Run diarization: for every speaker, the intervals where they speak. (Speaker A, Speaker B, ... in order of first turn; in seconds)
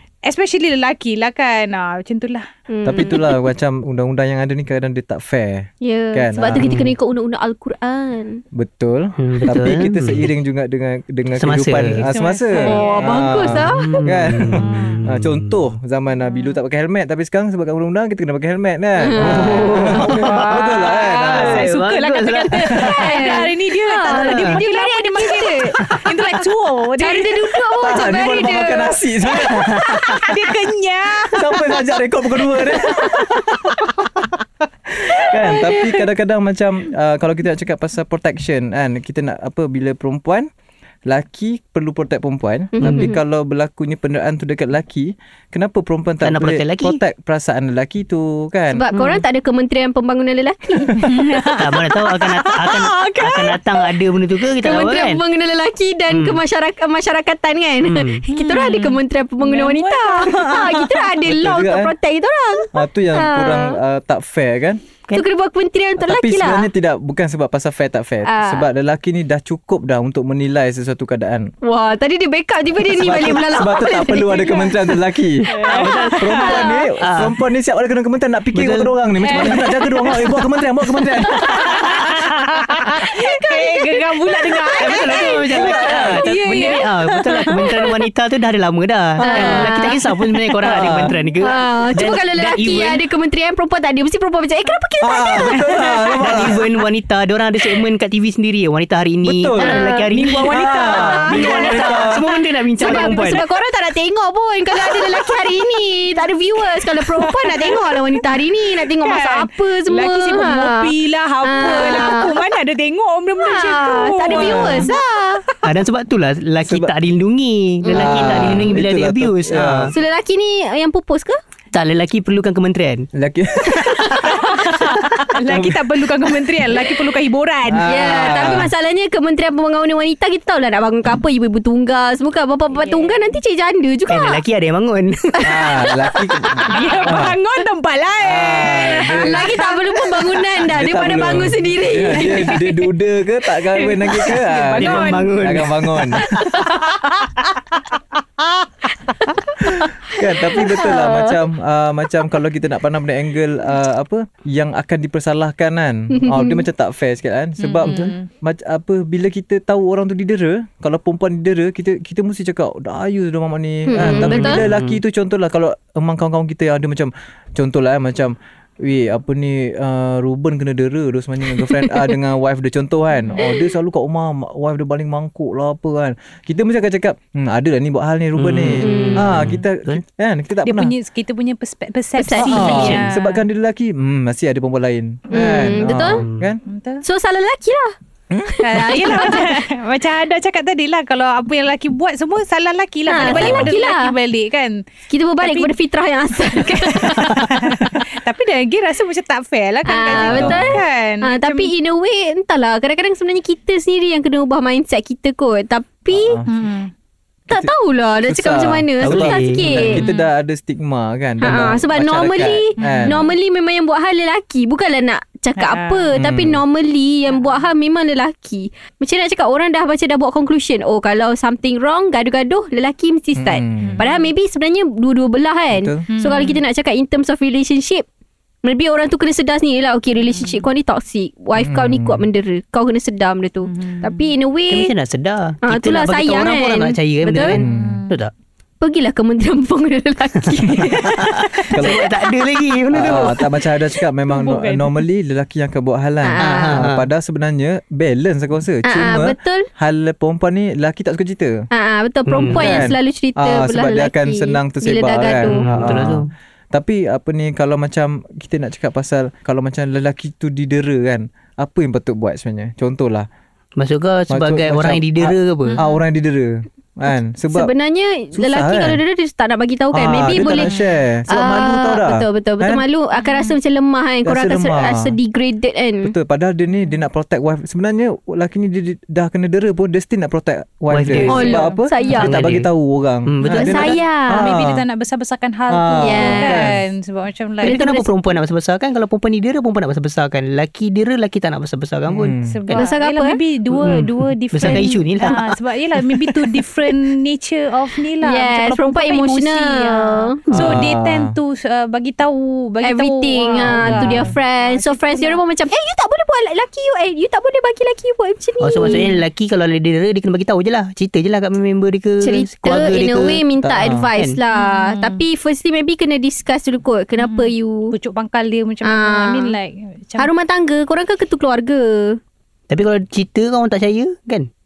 Speaker A: 0.2-2.5, 11.9-13.6, 14.5-15.0, 19.8-28.5, 29.3-31.9, 32.5-33.4, 35.1-36.0, 51.0-53.9, 58.3-61.1, 75.5-76.6, 79.2-80.3, 81.3-88.0, 95.5-96.1, 100.1-102.1, 104.8-105.5, 106.6-115.7, 124.0-127.9, 132.7-133.3, 136.7-140.4, 143.7-145.6, 146.2-147.8, 148.4-149.4, 157.6-158.3, 180.6-183.4, 186.7-187.0, 188.6-194.8, 195.4-195.7, 196.5-201.7, 206.5-206.9, 210.0-210.3, 212.8-213.3, 215.6-216.1, 217.3-217.6, 223.8-224.3, 226.1-226.6, 230.4-230.7, 233.7-234.2, 237.7-238.1, 241.6-242.3, 243.1-243.3, 244.3-245.0, 265.7-266.0, 273.2-273.6, 281.1-282.2, 283.4-287.8, 292.4-305.4, 314.5-315.2, 317.2-320.3
Speaker B: 2.7-3.4, 5.8-8.4, 12.6-13.8, 19.0-19.9, 22.8-25.8, 27.0-28.9, 42.8-43.2, 48.7-50.9, 54.6-63.8, 65.1-66.7, 68.2-68.7, 71.6-74.8, 76.5-76.8, 89.2-90.0, 91.4-95.9, 99.6-100.1, 100.8-101.8, 102.8-110.9, 111.4-112.3, 113.4-115.4, 117.9-118.5, 119.9-121.4, 127.9-134.4, 139.2-142.5, 150.6-151.4, 156.1-156.6, 163.9-164.6, 171.7-172.1, 178.8-179.3, 182.2-183.0, 185.3-186.2, 187.0-187.9, 188.5-189.6, 193.1-194.1, 195.1-197.7, 199.8-206.4, 207.5-210.0, 211.4-228.0, 228.6-234.9, 235.6-237.6, 238.8-241.6, 246.2-246.8, 248.9-249.7, 251.7-255.6, 267.5-270.7, 271.3-276.1, 281.3-282.3, 283.8-284.4, 286.0-286.7, 287.6-288.1, 292.8-293.4, 298.2-300.3, 302.8-309.1, 312.2-317.9, 318.8-319.5, 320.2-322.2
Speaker C: 2.8-6.7, 8.5-21.7, 27.8-30.4, 31.3-33.9, 34.9-40.5, 41.1-48.8, 61.2-61.9, 62.7-64.8, 66.0-71.5, 72.9-75.5, 76.2-82.2, 85.5-86.2, 89.2-89.8, 90.6-91.1, 95.0-96.6, 99.2-99.8, 100.5-102.2, 114.3-114.9, 117.9-119.9, 123.1-124.4, 125.4-125.8, 127.7-128.7, 135.4-137.3, 138.2-139.4, 140.7-146.3, 150.1-180.9, 182.4-186.6, 188.3-189.2, 193.2-193.7, 200.2-200.8, 206.1-206.5, 208.3-213.2, 216.2-216.6, 223.4-224.0, 225.7-226.0, 231.6-232.2, 237.5-238.0, 241.7-242.1, 242.9-251.5, 252.5-263.3, 264.3-267.7, 268.3-269.0, 269.9-272.8, 274.2-275.1, 276.0-284.8, 285.7-286.8, 292.1-292.6, 300.5-301.4, 303.6-304.3, 313.8-314.1
Speaker D: 6.6-6.9, 9.2-10.3, 11.4-12.0, 13.7-15.6, 19.2-23.0, 24.1-24.5, 42.8-43.1, 46.2-47.0, 51.6-55.2, 56.1-56.4, 57.8-58.2, 75.6-77.3, 78.5-80.3, 81.5-82.2, 84.8-93.0, 96.2-103.4, 115.6-119.9, 121.7-123.1, 134.1-135.7, 136.7-137.2, 144.2-146.7, 157.8-158.1, 164.0-165.0, 178.3-180.0, 182.5-183.1, 185.8-186.5, 193.2-193.6, 209.0-210.0, 234.7-238.3, 241.0-243.7, 246.4-247.1, 252.3-252.9, 255.4-256.3, 263.8-265.8, 270.3-270.7, 280.9-281.5, 282.2-282.7, 283.2-284.0, 287.6-292.9, 293.8-296.6, 300.5-300.8, 308.6-314.4, 322.7-324.5